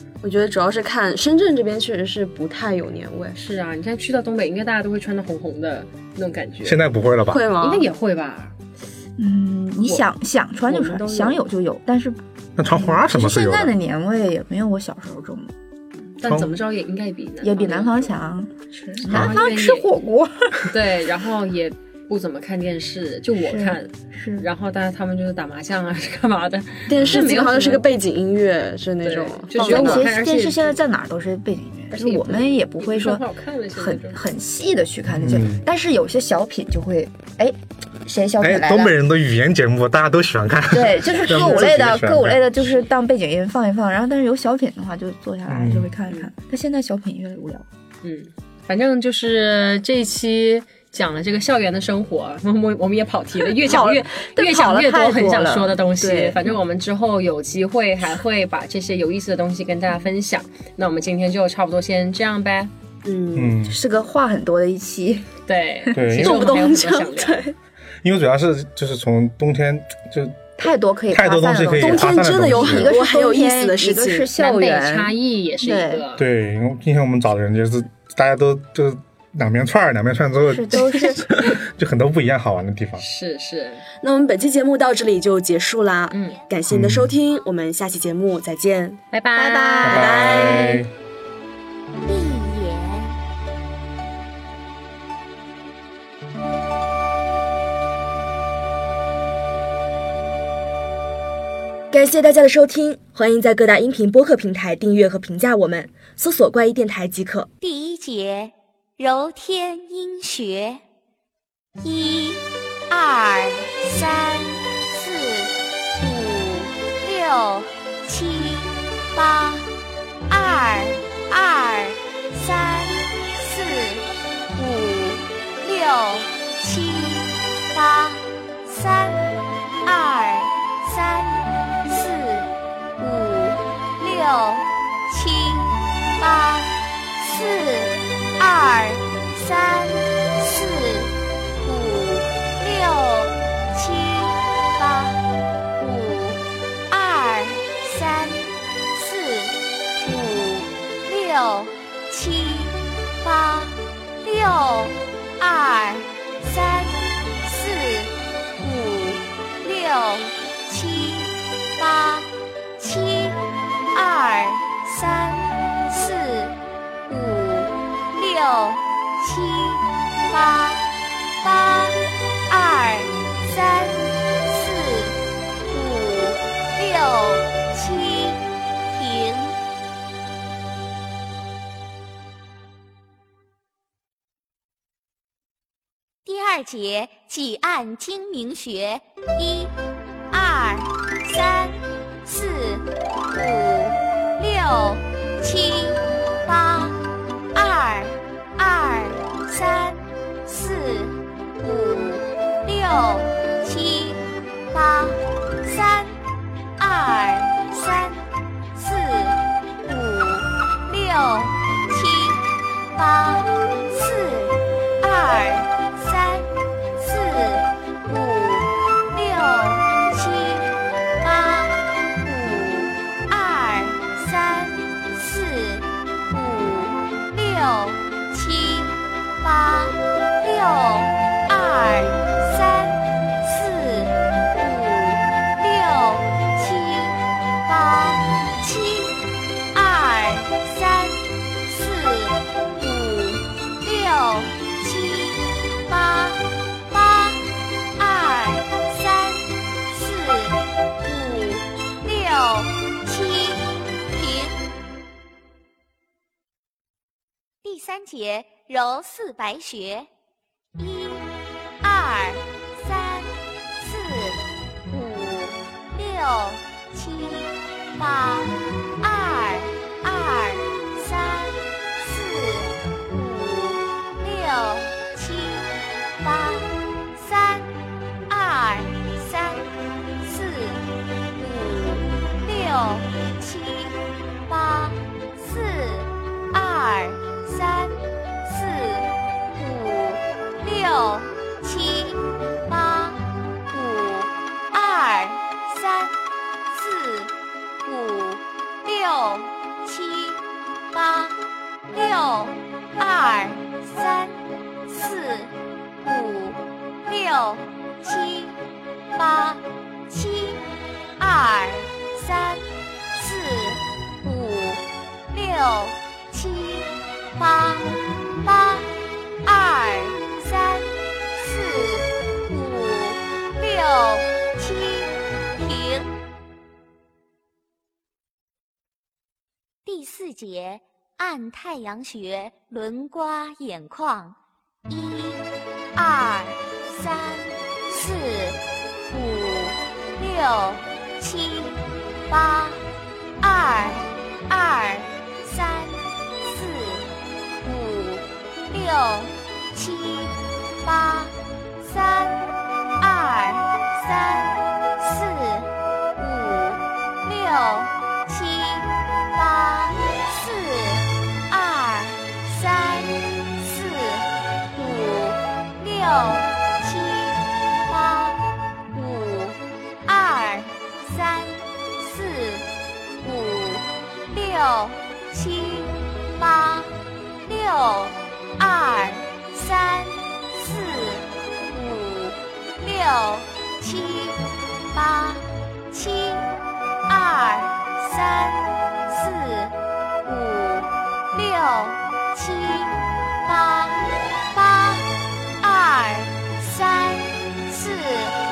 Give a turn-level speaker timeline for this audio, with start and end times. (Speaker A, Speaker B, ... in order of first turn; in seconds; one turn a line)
Speaker A: 0.2-3.4
Speaker B: 3.4-6.8
Speaker C: 6.6-7.4
Speaker A: 7.3-7.9
Speaker B: 7.6-8.5
Speaker D: 9.2-15.5
Speaker A: 10.7-11.4
Speaker C: 12.6-13.7
Speaker B: 16.1-18.1
Speaker C: 16.2-16.5
Speaker D: 17.4-20.7
Speaker B: 18.9-19.9
Speaker B: 20.7-27.9
Speaker D: 23.4-24.5
Speaker A: 26.9-30.0
Speaker B: 29.0-30.8
Speaker D: 29.6-38.9
Speaker B: 31.9-34.2
Speaker C: 35.1-35.6
Speaker C: 38.4-42.4
Speaker D: 40.7-47.6
Speaker C: 45.5-45.9
Speaker B: 48.0-62.7
Speaker D: 53.5-56.3
Speaker A: 63.0-63.6
Speaker C: 63.4-63.8
Speaker D: 63.6-65.3
Speaker B: 65.5-67.4
Speaker C: 65.9-66.6
Speaker A: 66.2-67.5
Speaker C: 68.0-70.5
Speaker D: 70.6-76.0
Speaker C: 71.1-72.9
Speaker A: 71.7-74.3
Speaker B: 74.4-76.2
Speaker C: 76.2-83.0
Speaker D: 80.4-81.5
Speaker B: 83.0-83.8
Speaker A: 84.0-89.0
Speaker B: 86.1-86.4
Speaker C: 86.7-87.1
Speaker B: 89.1-90.0
Speaker D: 89.3-90.2
Speaker A: 89.8-90.8
Speaker C: 89.8-90.9
Speaker E: 92.0-93.2
Speaker A: 101.9-107.5
Speaker E: 107.6-110.8
Speaker E: 111.8-119.7
Speaker E: 120.3-145.2
Speaker E: 145.8-163.4
Speaker E: 163.9-166.5
Speaker E: 167.1-170.8
Speaker E: 171.4-179.6
Speaker E: 186.2-189.7
Speaker E: 190.3-197.0
Speaker E: 197.5-206.2
Speaker E: 206.8-208.2
Speaker E: 208.7-239.1
Speaker E: 239.7-247.4
Speaker E: 248.0-254.6
Speaker E: 257.6-260.1
Speaker E: 260.8-261.3
Speaker E: 261.8-277.7
Speaker E: 278.3-279.6
Speaker E: 280.2-280.8
Speaker E: 281.4-296.1
Speaker E: 296.7-297.3
Speaker E: 297.8-301.4
Speaker E: 301.9-304.4
Speaker E: 304.9-308.6
Speaker E: 309.1-310.6
Speaker E: 311.2-318.9
Speaker E: 319.4-326.1
Speaker E: 329.9-334.4
Speaker E: 334.9-338.6
Speaker E: 339.1-342.8
Speaker E: 343.4-347.1
Speaker E: 347.6-368.4
Speaker E: 368.9-372.7
Speaker E: 373.2-376.9
Speaker E: 377.4-386.5
Speaker E: 387.1-395.1
Speaker E: 395.6-398.4